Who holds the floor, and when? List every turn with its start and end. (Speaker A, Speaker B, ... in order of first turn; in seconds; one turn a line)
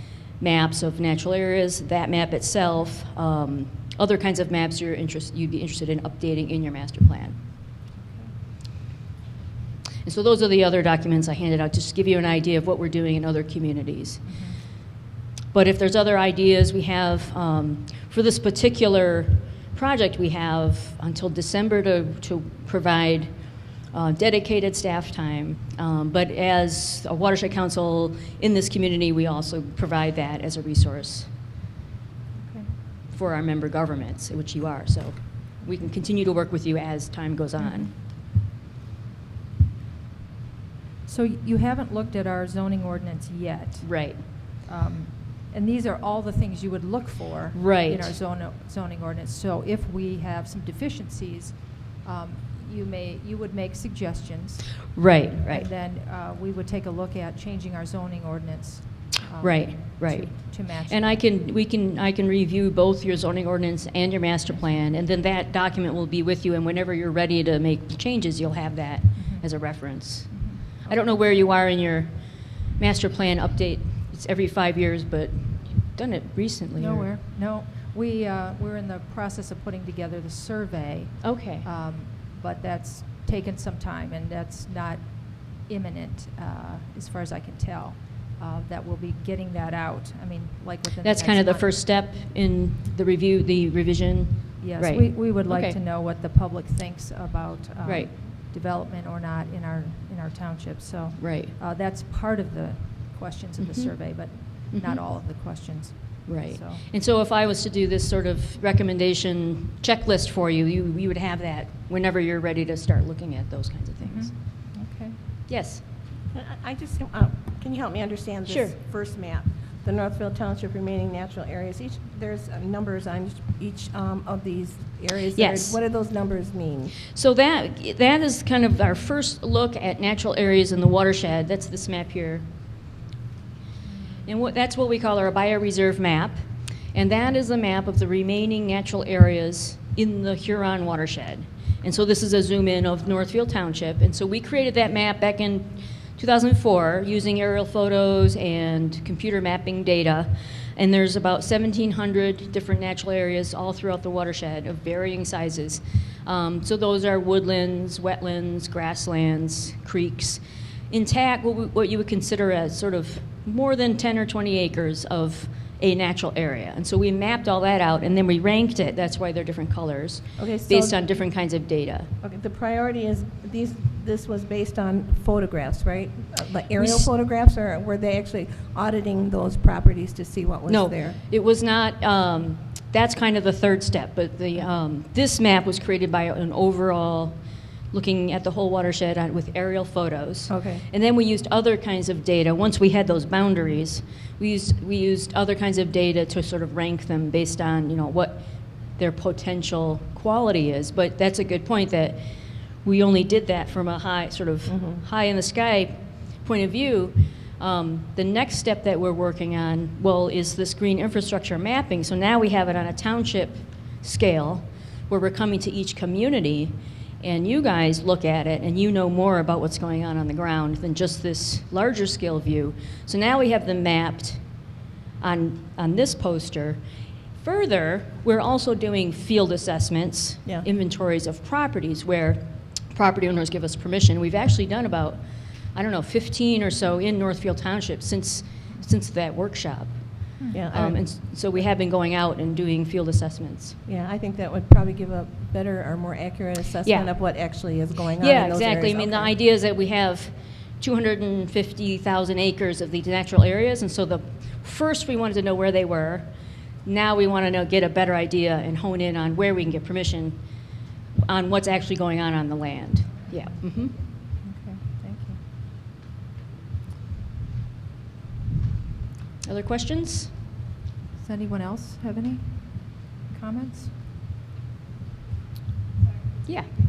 Speaker A: 0.4-7.4
Speaker B: 8.0-8.3
Speaker A: 10.0-14.2
Speaker B: 14.2-14.6
Speaker A: 15.5-23.3
Speaker A: 23.9-31.3
Speaker B: 32.4-32.7
Speaker A: 33.1-37.9
Speaker B: 37.6-37.9
Speaker B: 41.0-54.9
Speaker A: 43.8-44.2
Speaker A: 47.5-48.1
Speaker A: 54.9-55.7
Speaker B: 55.5-61.3
Speaker A: 59.4-72.2
Speaker B: 69.1-71.1
Speaker A: 72.7-77.1
Speaker B: 76.8-91.7
Speaker A: 81.2-81.6
Speaker A: 91.0-95.8
Speaker B: 94.6-106.8
Speaker A: 97.8-98.1
Speaker A: 101.2-101.5
Speaker A: 103.6-105.6
Speaker A: 106.2-114.3
Speaker B: 114.0-115.2
Speaker A: 115.5-115.8
Speaker C: 116.3-126.9
Speaker A: 118.5-118.8
Speaker A: 125.3-125.8
Speaker A: 127.1-132.4
Speaker A: 134.2-136.4
Speaker A: 136.9-172.1
Speaker C: 170.4-171.0
Speaker C: 172.2-181.2
Speaker A: 176.8-177.1
Speaker A: 180.7-187.4
Speaker A: 187.9-198.4
Speaker C: 190.5-190.8
Speaker A: 199.0-224.4
Speaker C: 204.7-205.0
Speaker A: 225.2-226.8
Speaker A: 227.4-235.2
Speaker A: 235.7-240.0
Speaker B: 240.4-240.6
Speaker C: 240.5-241.0
Speaker A: 240.7-243.8
Speaker C: 243.8-249.3
Speaker A: 246.8-247.1
Speaker A: 248.2-256.3
Speaker A: 256.8-260.4
Speaker A: 261.3-264.0
Speaker B: 264.4-265.4
Speaker A: 269.4-270.3
Speaker B: 271.2-273.9